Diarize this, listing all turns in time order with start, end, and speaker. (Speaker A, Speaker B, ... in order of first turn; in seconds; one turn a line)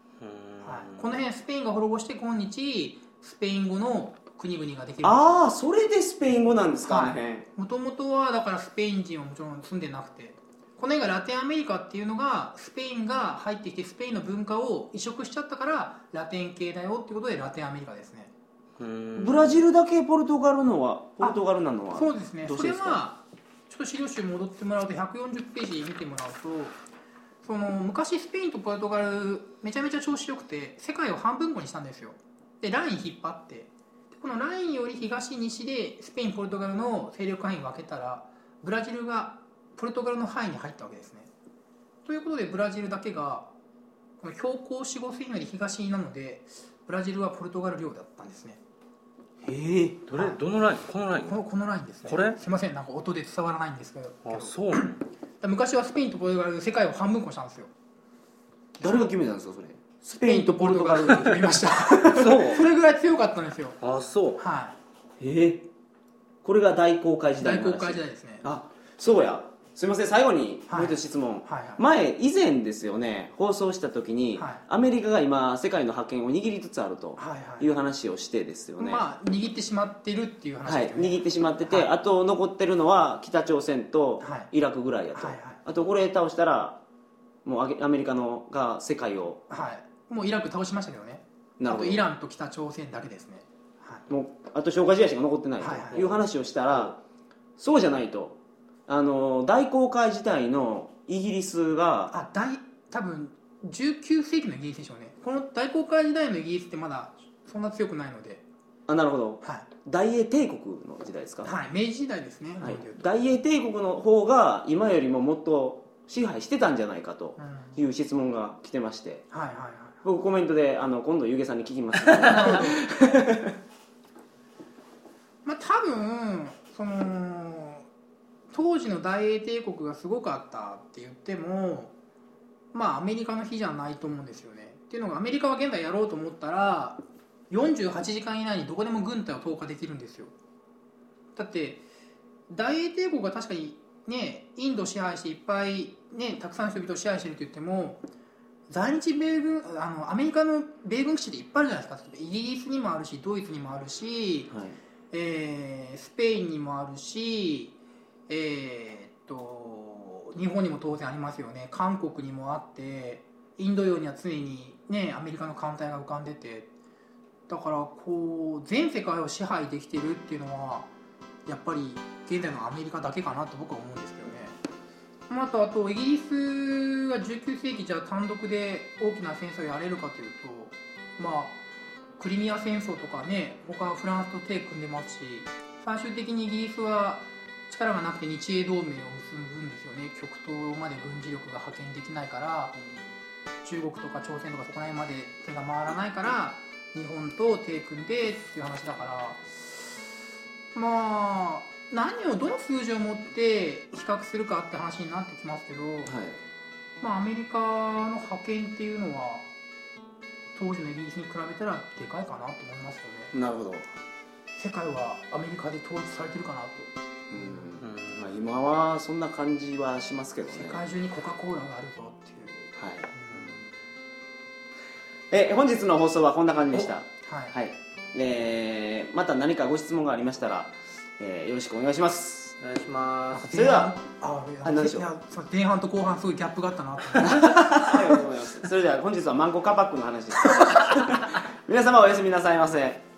Speaker A: 0.2-1.2
Speaker B: 0.6-5.4
Speaker C: 5.0-7.5
Speaker B: 6.8-18.3
Speaker A: 18.8-19.6
Speaker C: 19.1-23.0
Speaker B: 21.9-26.8
Speaker B: 27.4-41.3
Speaker B: 42.0-43.5
Speaker B: 44.2-48.6
Speaker C: 49.4-50.0
Speaker A: 50.1-51.4
Speaker B: 50.1-50.4
Speaker B: 51.2-57.7
Speaker A: 52.0-52.4
Speaker A: 54.2-55.0
Speaker C: 58.8-62.6
Speaker B: 60.2-63.8
Speaker A: 63.8-64.4
Speaker B: 64.4-64.8
Speaker C: 65.2-65.7
Speaker C: 66.4-79.0
Speaker B: 67.4-68.5
Speaker B: 70.7-71.8
Speaker B: 74.4-74.6
Speaker B: 77.2-77.7
Speaker B: 78.8-81.9
Speaker C: 80.6-86.8
Speaker B: 84.2-84.5
Speaker B: 85.2-85.6
Speaker C: 87.4-89.4
Speaker B: 89.5-94.0
Speaker C: 91.6-92.0
Speaker C: 94.1-97.0
Speaker B: 95.6-96.0
Speaker C: 97.6-102.1
Speaker B: 102.1-108.4
Speaker C: 108.9-111.5
Speaker B: 111.4-113.0
Speaker C: 112.6-119.2
Speaker B: 117.4-117.8
Speaker B: 119.3-120.0
Speaker C: 120.0-123.5
Speaker B: 122.1-122.8
Speaker B: 125.4-127.8
Speaker B: 128.5-131.9
Speaker B: 132.7-140.3
Speaker B: 141.3-141.8
Speaker B: 142.5-148.0
Speaker B: 148.7-154.5
Speaker B: 155.1-157.7
Speaker B: 158.3-166.7
Speaker B: 167.5-170.9
Speaker B: 171.4-174.6
Speaker B: 175.3-181.6
Speaker B: 182.2-192.7
Speaker B: 193.6-199.9
Speaker B: 200.7-206.1
Speaker C: 206.1-206.4
Speaker B: 207.0-209.4
Speaker B: 210.5-213.3
Speaker C: 213.3-213.9
Speaker B: 214.5-217.8
Speaker C: 217.3-220.8
Speaker A: 217.8-218.3
Speaker B: 220.5-223.7
Speaker C: 222.8-223.1
Speaker C: 225.3-232.6
Speaker B: 227.2-227.5
Speaker A: 232.6-233.5
Speaker B: 233.3-238.0
Speaker C: 233.5-233.9
Speaker C: 234.6-235.1
Speaker C: 237.2-243.0